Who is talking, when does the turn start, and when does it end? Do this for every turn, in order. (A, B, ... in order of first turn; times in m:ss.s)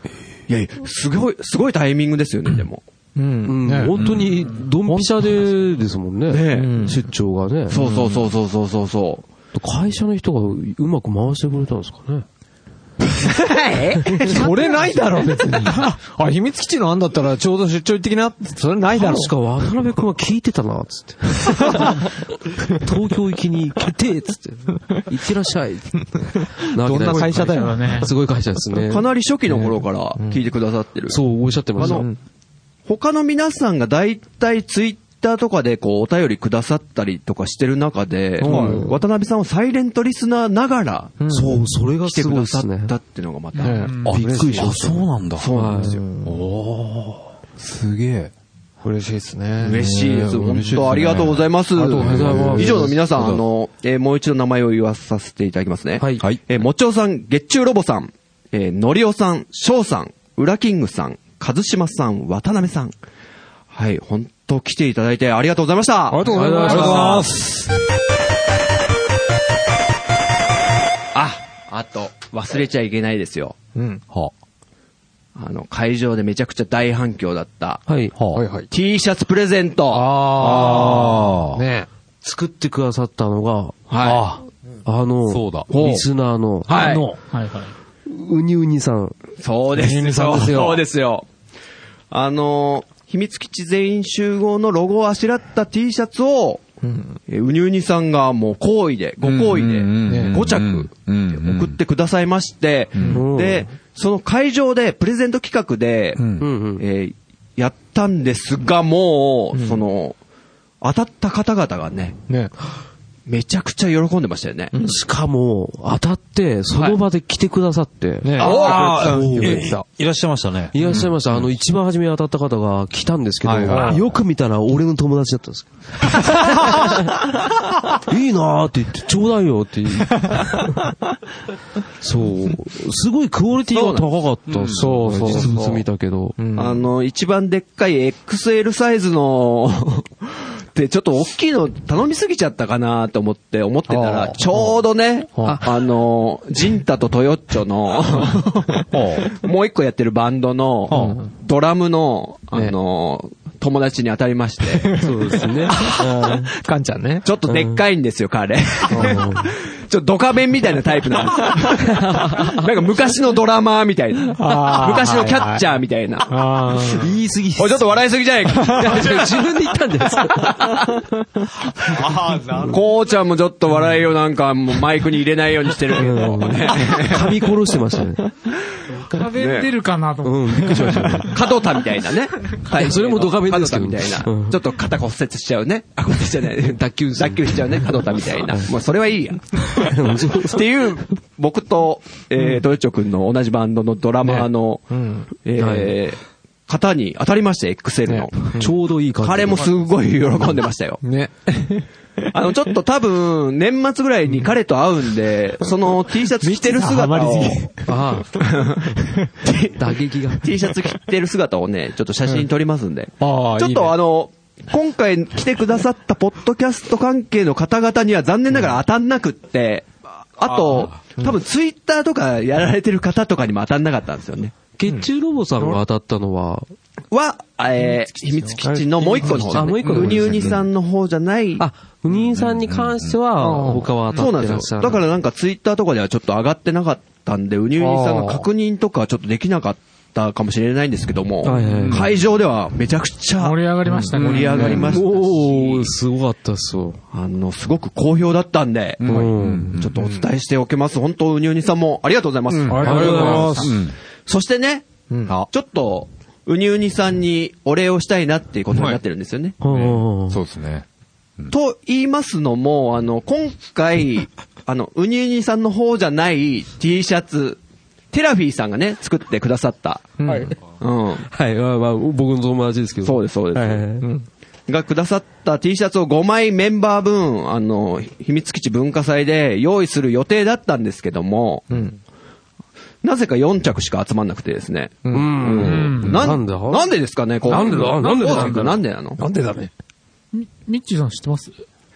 0:00.5-0:02.8 A
0:03.1-0:04.0 B
0:03.4-0:07.8 C
0:03.9-0:04.4 D
0:04.8-0:05.4 B
0:06.3-0:06.8 A
0:06.5-0:07.0 B
0:07.7-0:09.2 A
0:07.8-0:08.2 B
0:09.5-0:12.2 C
0:13.2-0:14.7 A
0:14.1-0:19.3 B
0:18.9-0:29.1 C
0:21.4-0:22.0 B
0:26.8-0:27.6 D
0:26.9-0:28.0 B
0:27.4-0:28.1 E
0:28.8-0:31.2 A
0:30.2-0:30.4 B
0:31.1-0:32.1 C
0:31.8-0:32.1 A
0:31.8-0:32.2 B
0:32.9-0:41.2 A
0:38.4-0:39.0 B
0:38.4-0:38.8 D
0:41.2-0:41.7 B
0:41.3-0:42.9 C
0:42.0-0:43.9 A
0:43.5-0:44.1 E
0:43.6-0:44.7 B
0:44.0-0:45.5 D
0:44.1-0:46.0 C
0:45.4-0:46.0 A
0:45.8-0:46.4 B
0:46.2-0:48.3 D
0:48.8-0:49.9 B
0:49.6-1:02.9 A
0:49.7-0:53.4 D
0:51.9-0:53.0 C
0:51.9-0:52.8 B
0:56.0-0:56.2 C
1:03.7-1:07.0 A
1:06.1-1:07.4 B
1:06.2-1:07.3 C
1:06.4-1:07.7 D
1:11.1-1:13.6 A
1:13.7-1:14.0 B
1:15.3-1:17.8 A
1:17.9-1:18.1 C
1:18.2-1:18.4 D
1:18.3-1:18.7 B
1:18.7-1:21.1 A
1:19.9-1:21.9 B
1:20.4-1:21.6 D
1:22.2-1:23.8 C
1:23.9-1:24.3 A
1:24.0-1:24.4 D
1:24.8-1:26.9 C
1:25.3-1:25.7 D
1:25.7-1:26.0 B
1:26.7-1:27.1 A
1:26.7-1:27.2 B
1:27.3-1:27.7 E
1:28.0-1:29.1 C
1:29.4-1:31.3 A
1:29.7-1:30.8 B
1:32.1-1:36.6 A
1:36.8-1:37.2 B
1:37.3-1:46.2 A
1:39.2-1:41.8 D
1:40.0-1:40.5 B
1:42.9-1:43.2 D
1:43.1-1:43.7 C
1:46.2-1:46.5 D
1:46.4-1:46.8 C
1:46.8-1:50.2 A
1:49.5-1:49.8 B
1:50.8-1:52.2 A
1:52.3-1:52.5 B
1:53.3-1:54.7 A
1:54.7-1:55.0 B
1:54.8-1:59.7 C
1:56.7-1:57.0 A
1:58.2-1:59.8 B
1:58.4-2:01.5 D
1:58.4-1:59.1 A
2:00.7-2:07.3 C
2:03.4-2:04.1 D
2:03.7-2:04.0 B
2:08.0-2:10.9 C
2:12.0-2:16.4 C
2:13.7-2:14.1 A
2:14.5-2:14.9 D
2:14.8-2:15.8 B
2:16.4-2:16.8 B
2:16.5-2:35.0 A
2:23.9-2:24.8 B
2:25.4-2:25.7 B
2:28.3-2:28.8 B
2:28.9-2:29.3 D
2:30.9-2:31.2 D
2:30.9-2:31.3 B
2:34.7-2:37.3 B
2:35.0-2:36.5 C
2:37.2-2:46.4 A
2:37.4-2:37.8 C
2:38.9-2:39.3 B
2:38.9-2:39.5 C
2:44.3-2:45.6 B
2:46.3-2:47.1 B
2:46.9-2:47.9 C
2:47.6-2:49.3 A
2:48.6-2:50.8 C
2:50.3-2:51.0 A
2:51.8-2:52.9 D
2:52.6-2:57.5 A
2:55.9-2:58.2 C
2:58.9-3:01.2 E
2:59.2-2:59.7 A
3:00.2-3:01.4 C
3:01.2-3:18.6 A
3:02.7-3:04.6 C
3:06.6-3:08.7 C
3:09.6-3:10.6 C
3:14.2-3:15.3 B
3:15.6-3:16.0 C
3:18.1-3:18.7 B
3:18.5-3:19.7 C
3:19.2-3:21.0 A
3:21.0-3:21.9 B
3:22.3-3:27.7 A
3:26.4-3:28.0 B
3:27.8-3:28.4 C
3:28.3-3:44.5 A
3:29.0-3:29.3 B
3:29.8-3:30.5 C
3:33.2-3:34.0 B
3:40.5-3:41.0 D
3:44.8-3:46.6 C
3:47.1-3:51.6 A
3:48.6-3:49.6 B
3:49.2-3:50.6 C
3:49.8-3:50.6 D
3:51.6-3:55.0 C
3:52.1-3:53.2 D
3:53.4-3:53.9 B
3:54.1-4:03.6 A
3:57.8-3:58.5 B
4:01.4-4:02.1 C
4:01.7-4:02.2 D
4:03.4-4:05.0 E
4:04.1-4:05.0 D
4:04.1-4:05.9 A
4:04.6-4:07.0 C
4:07.1-4:13.7 A
4:09.0-4:10.1 D
4:09.0-4:09.8 C
4:10.0-4:10.2 B
4:12.5-4:13.9 D
4:12.7-4:13.8 B
4:12.7-4:13.7 C
4:14.2-4:19.6 A
4:15.1-4:15.4 B
4:18.7-4:19.0 D
4:19.6-4:20.4 C
4:19.6-4:20.8 D
4:21.5-4:27.6 A
4:28.1-4:30.1 A
4:30.2-4:30.5 B
4:30.2-4:30.5 C
4:30.7-4:31.3 A
4:31.2-4:34.1 C
4:33.0-4:33.9 A
4:34.0-4:34.3 B
4:34.7-4:41.7 A
4:41.7-4:42.0 B
4:43.0-4:49.2 A
4:45.0-4:45.4 B
4:45.1-4:48.8 C
4:45.6-4:46.2 E
4:49.2-4:49.7 B
4:50.3-4:51.5 E